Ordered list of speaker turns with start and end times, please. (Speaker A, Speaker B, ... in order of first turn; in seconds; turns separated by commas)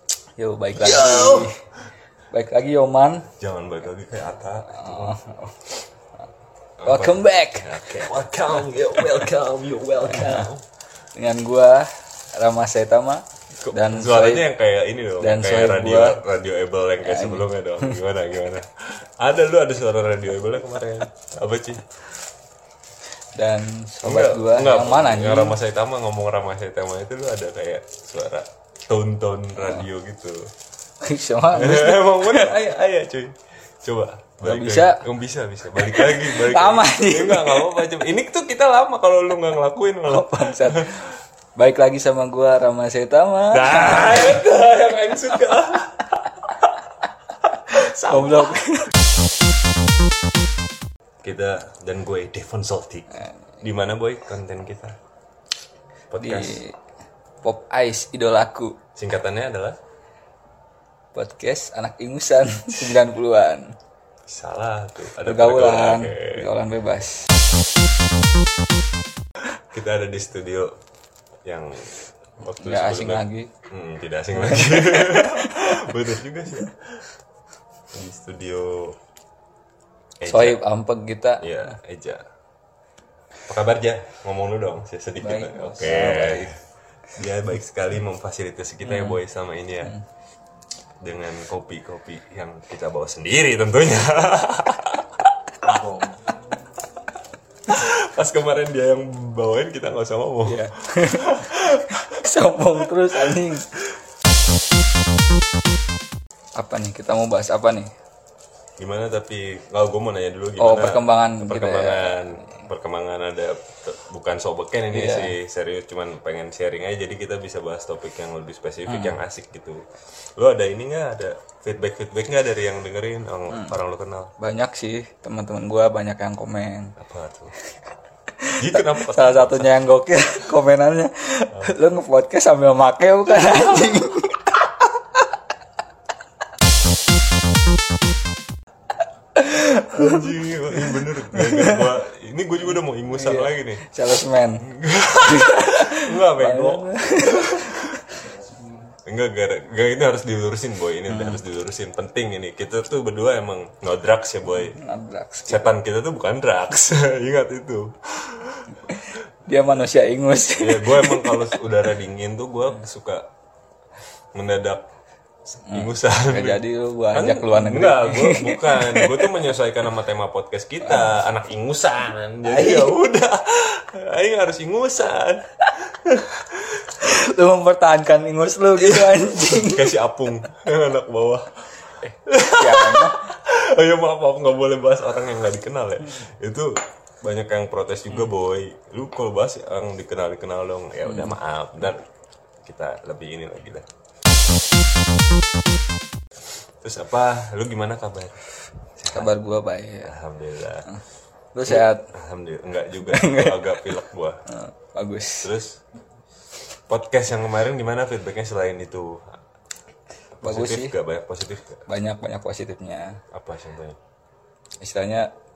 Speaker A: 0.4-1.5, Speaker B: 0.8-1.5, Speaker A: 2.3-3.3, Speaker B: 3.4-5.1, Speaker A: 4.7-5.7, Speaker B: 6.8-10.6, Speaker A: 6.8-7.9, Speaker A: 10.1-10.5, Speaker A: 11.2-14.5, Speaker B: 13.6-21.8, Speaker A: 15.2-16.2, Speaker A: 17.0-18.0, Speaker A: 23.4-25.6, Speaker B: 24.0-30.5, Speaker A: 31.0-32.6, Speaker B: 31.5-41.0, Speaker A: 34.4-35.0, Speaker A: 35.8-37.8, Speaker A: 40.1-44.4, Speaker B: 43.5-46.2, Speaker B: 47.7-48.5, Speaker A: 47.7-48.9, Speaker B: 51.2-53.1, Speaker B: 53.6-55.0, Speaker B: 56.1-56.6, Speaker A: 56.2-56.7, Speaker A: 57.4-58.8, Speaker B: 59.0-59.8, Speaker A: 61.1-63.7, Speaker B: 64.3-66.5, Speaker A: 65.2-67.3, Speaker B: 69.7-70.7, Speaker B: 71.5-77.0, Speaker A: 72.6-73.5, Speaker A: 74.4-75.8, Speaker B: 77.9-79.0, Speaker B: 80.2-80.6, Speaker A: 80.2-81.5, Speaker B: 81.4-82.2, Speaker B: 83.5-86.5, Speaker A: 85.2-86.5, Speaker B: 87.2-90.0, Speaker A: 88.9-89.1, Speaker B: 91.0-96.1, Speaker B: 97.7-102.0, Speaker A: 100.5-103.7, Speaker A: 106.6-107.9, Speaker B: 108.8-119.8, Speaker A: 110.6-112.4, Speaker A: 114.9-115.3, Speaker A: 118.9-119.2, Speaker B: 120.4-124.3, Speaker A: 124.4-127.0, Speaker B: 127.0-127.5, Speaker B: 128.6-129.7, Speaker A: 128.6-134.7, Speaker A: 139.4-141.8, Speaker B: 139.7-143.8, Speaker A: 143.1-144.7, Speaker B: 144.6-147.9, Speaker A: 145.2-148.3, Speaker B: 149.1-154.8, Speaker A: 154.5-155.8, Speaker B: 155.5-158.7, Speaker A: 158.9-161.6, Speaker B: 160.6-163.3, Speaker B: 164.3-164.8, Speaker B: 165.5-175.4, Speaker A: 165.7-169.4, Speaker A: 170.9-171.2, Speaker A: 172.4-172.9, Speaker A: 177.0-179.9, Speaker B: 178.8-181.5, Speaker A: 182.0-183.3, Speaker B: 182.3-192.0, Speaker A: 191.1-191.3, Speaker B: 192.7-193.8, Speaker B: 196.8-198.4, Speaker B: 199.0-199.3, Speaker A: 199.1-200.1, Speaker B: 200.0-200.9, Speaker A: 201.6-202.0, Speaker B: 201.7-204.4, Speaker A: 203.1-203.8, Speaker A: 204.5-205.5, Speaker B: 205.4-205.8, Speaker B: 206.9-209.4, Speaker B: 210.3-211.8, Speaker A: 210.4-210.9, Speaker A: 211.9-213.2, Speaker B: 213.3-214.0, Speaker A: 214.8-215.3